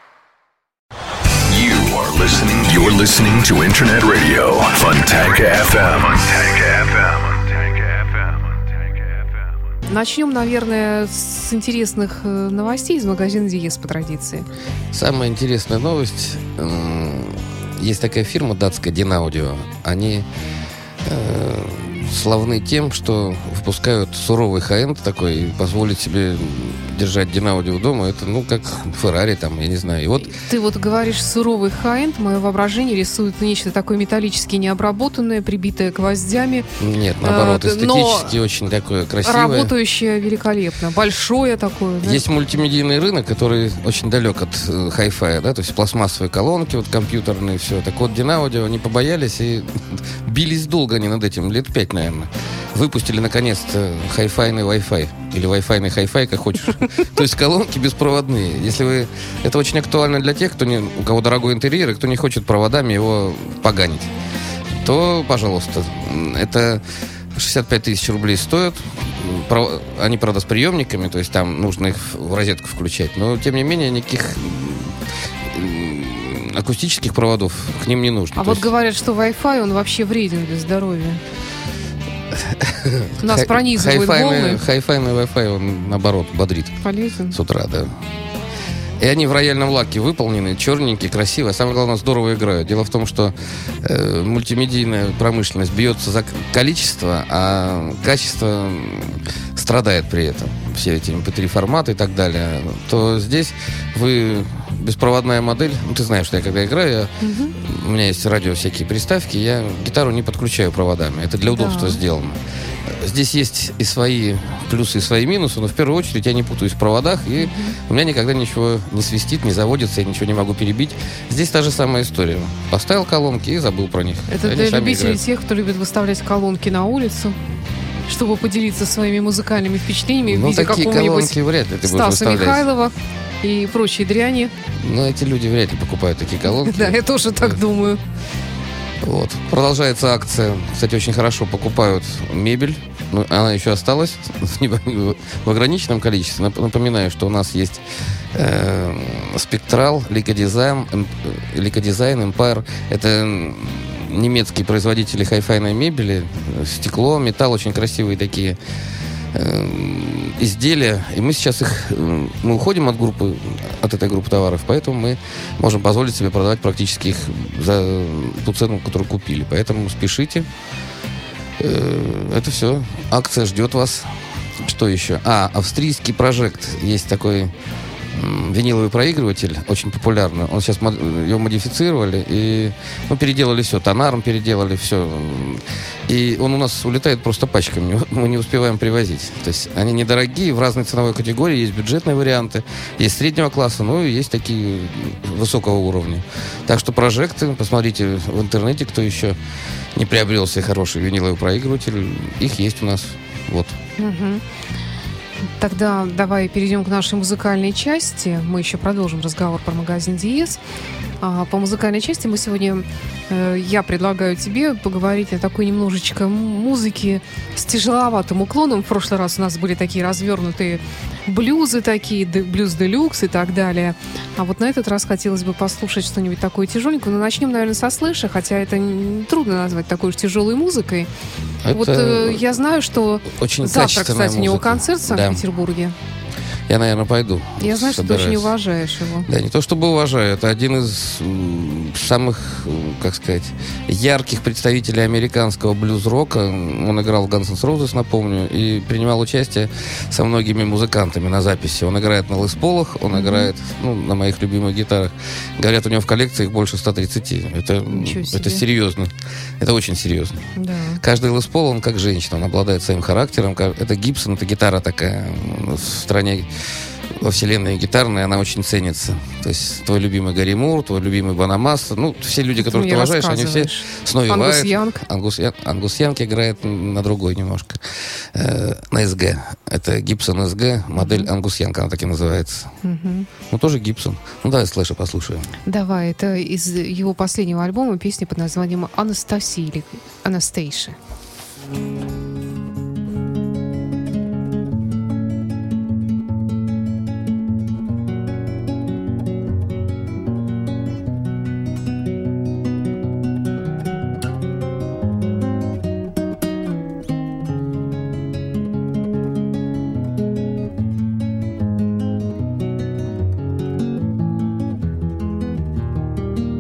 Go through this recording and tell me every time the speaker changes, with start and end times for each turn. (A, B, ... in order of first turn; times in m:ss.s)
0:01.5-0:08.4 A
0:09.9-0:14.5 B
0:14.9-0:20.2 C
0:21.0-0:30.4 C
0:30.3-0:36.7 B
0:36.8-0:39.7 C
0:37.2-0:38.4 B
0:39.2-0:42.2 B
0:42.0-1:04.1 C
1:04.8-1:06.8 C
1:07.4-1:15.0 C
1:15.5-1:18.7 C
1:18.4-1:21.2 B
1:22.3-1:26.8 C
1:23.2-1:24.6 B
1:26.8-1:27.4 B
1:27.3-1:28.0 C
1:29.0-2:05.2 C
1:47.2-1:47.6 B
1:51.5-1:52.0 B
1:57.4-1:57.8 B
2:04.3-2:07.4 B
2:08.1-2:14.5 B
2:10.3-2:12.7 C
2:14.8-2:17.6 C
2:16.4-2:18.0 B
2:19.0-2:38.6 C
2:39.3-2:50.5 C
2:51.6-2:57.5 C
2:58.1-3:19.4 C
3:20.0-3:23.8 C
3:24.0-3:24.4 B
3:25.6-3:30.6 B
3:31.2-3:51.1 B
3:51.6-3:52.5 C
3:51.7-3:56.0 B
3:53.3-3:55.4 C
3:56.7-3:58.5 C
3:57.6-3:59.3 B
3:59.3-4:20.4 C
4:13.1-4:13.5 B
4:17.9-4:18.6 B
4:20.6-4:21.0 B
4:21.0-4:26.5 C
4:27.1-4:42.7 C
4:32.6-4:35.0 B
4:41.0-4:41.3 B
4:42.8-4:43.3 B
4:43.5-4:45.5 C
4:45.7-4:51.0 B